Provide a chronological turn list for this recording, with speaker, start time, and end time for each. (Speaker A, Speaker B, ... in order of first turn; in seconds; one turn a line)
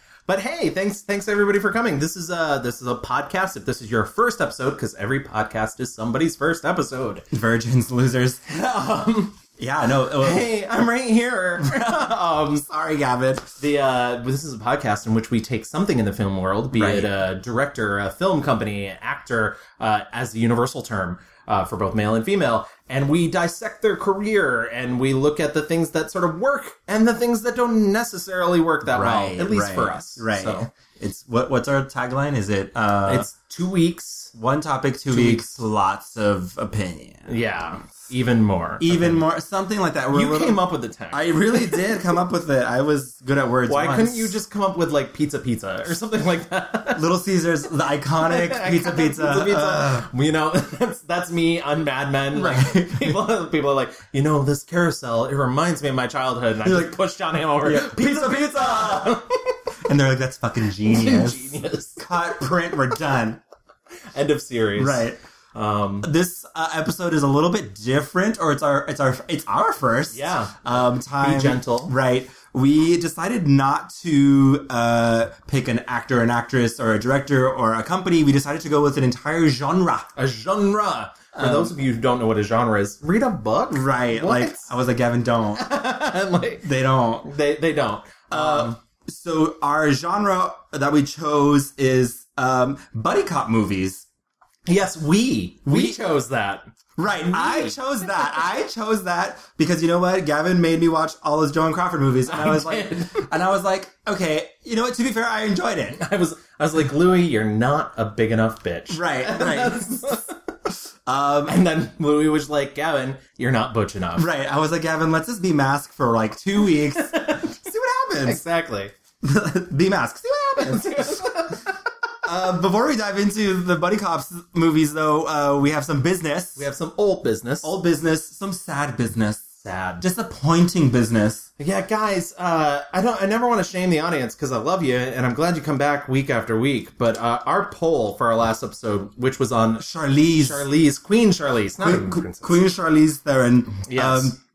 Speaker A: 0.3-7.2
Speaker B: 7.3-8.4
Speaker A: 8.5-9.4
Speaker B: 9.6-10.5
Speaker A: 10.2-12.6
Speaker B: 11.6-13.5
Speaker A: 13.6-30.7
Speaker B: 16.7-17.1
Speaker B: 28.8-33.3
Speaker A: 33.1-34.3
Speaker B: 34.3-37.4
Speaker A: 35.1-35.5
Speaker A: 37.3-39.2
Speaker B: 38.8-44.4
Speaker A: 40.1-41.9
Speaker A: 43.7-47.0
Speaker B: 46.9-50.1
Speaker A: 48.2-59.3
Speaker B: 52.3-53.2
Speaker B: 56.6-57.0
Speaker B: 57.6-59.2
Speaker B: 59.9-63.4
Speaker A: 60.9-62.0
Speaker A: 64.1-65.0
Speaker B: 64.8-65.2
Speaker A: 65.5-66.1
Speaker B: 66.0-80.1
Speaker A: 70.1-71.9
Speaker A: 80.2-84.7
Speaker B: 81.3-81.7
Speaker B: 83.7-85.6
Speaker A: 85.6-86.6
Speaker B: 86.6-87.3
Speaker A: 87.2-88.8
Speaker B: 88.3-94.0
Speaker A: 94.7-97.8
Speaker B: 95.7-96.0
Speaker B: 97.0-106.0
Speaker A: 102.3-103.1
Speaker A: 106.0-110.3
Speaker B: 108.9-110.1
Speaker B: 111.0-111.5
Speaker A: 111.5-114.3
Speaker B: 114.2-118.4
Speaker A: 117.0-117.6
Speaker A: 118.2-118.9
Speaker B: 119.2-121.5
Speaker A: 120.6-121.8
Speaker B: 122.2-126.6
Speaker A: 126.5-127.7
Speaker B: 127.6-129.5
Speaker A: 129.6-130.1
Speaker B: 130.0-131.5
Speaker A: 131.6-142.6
Speaker B: 139.8-140.6
Speaker B: 141.8-144.4
Speaker A: 143.9-144.3